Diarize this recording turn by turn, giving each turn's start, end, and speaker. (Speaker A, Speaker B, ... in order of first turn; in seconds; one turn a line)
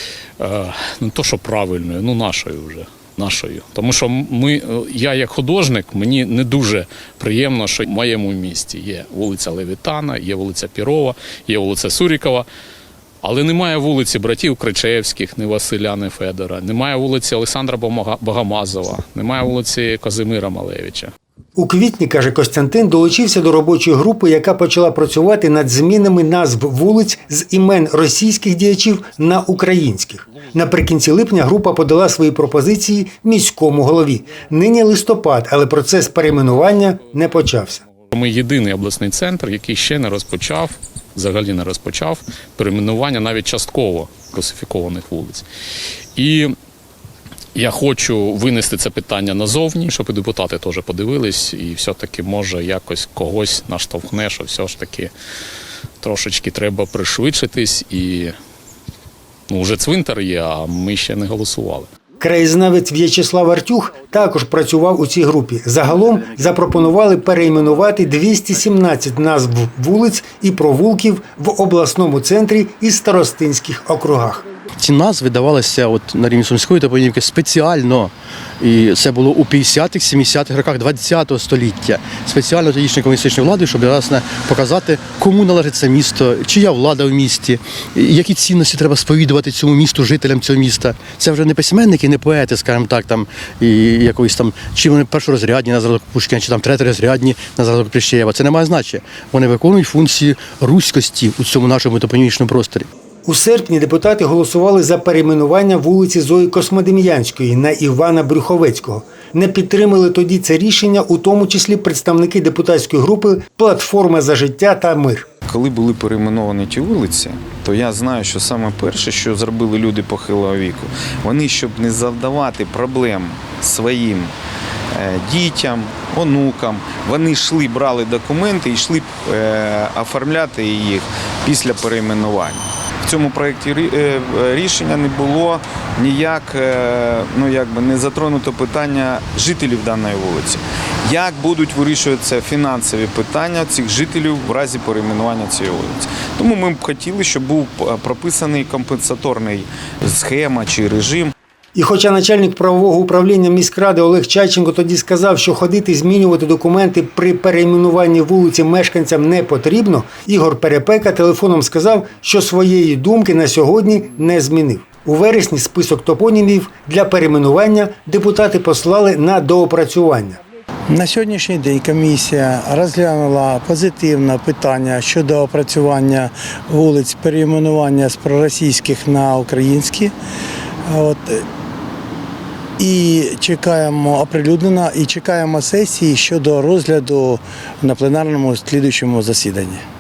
Speaker A: 0.4-12.5
Speaker A: 13.2-21.1
Speaker B: 21.6-37.8
Speaker A: 38.1-45.5
Speaker A: 46.2-46.5
Speaker A: 47.5-55.1
Speaker A: 56.0-58.3
Speaker A: 59.5-61.9
Speaker B: 62.2-74.4
Speaker C: 74.8-102.9
Speaker B: 103.2-115.3
Speaker D: 115.5-124.3
Speaker D: 124.9-151.3
Speaker B: 151.8-170.4
Speaker E: 170.9-180.1
Speaker E: 180.9-181.4
Speaker E: 182.8-189.8